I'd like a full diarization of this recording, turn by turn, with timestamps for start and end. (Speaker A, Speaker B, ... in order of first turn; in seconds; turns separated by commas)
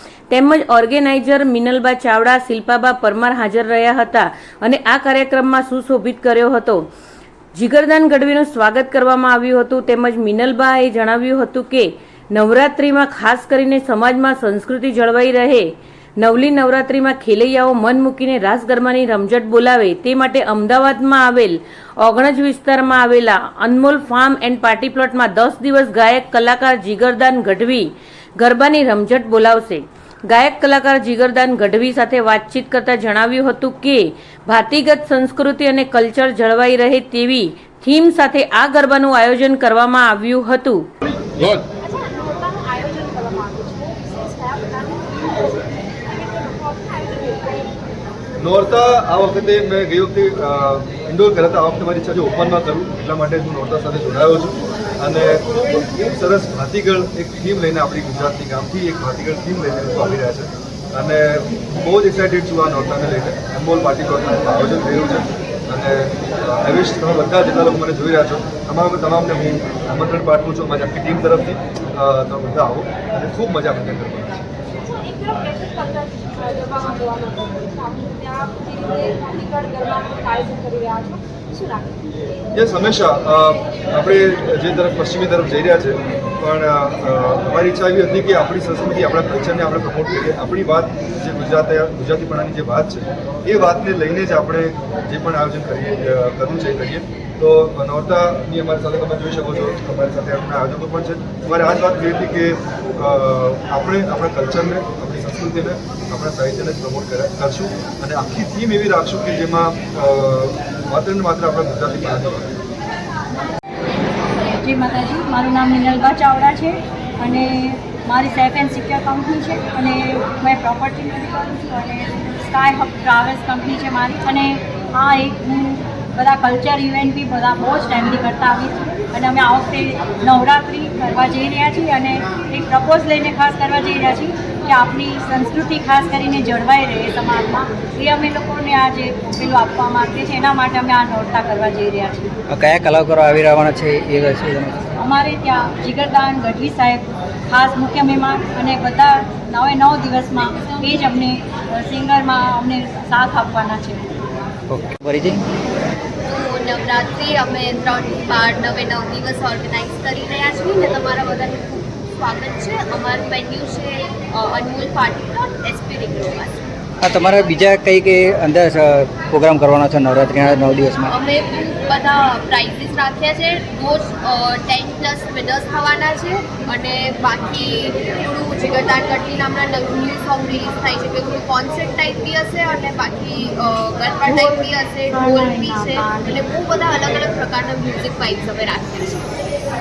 Speaker A: 0.3-6.8, Speaker A: 7.5-40.9, Speaker B: 41.7-47.8, Speaker C: 48.4-74.4, Speaker B: 74.8-82.0, Speaker C: 82.5-112.5, Speaker D: 114.4-142.3, Speaker E: 142.5-144.9, Speaker D: 144.9-154.2, Speaker E: 154.7-155.4, Speaker F: 156.2-166.6, Speaker E: 167.0-171.1, Speaker F: 171.1-189.2, Speaker D: 184.2-186.4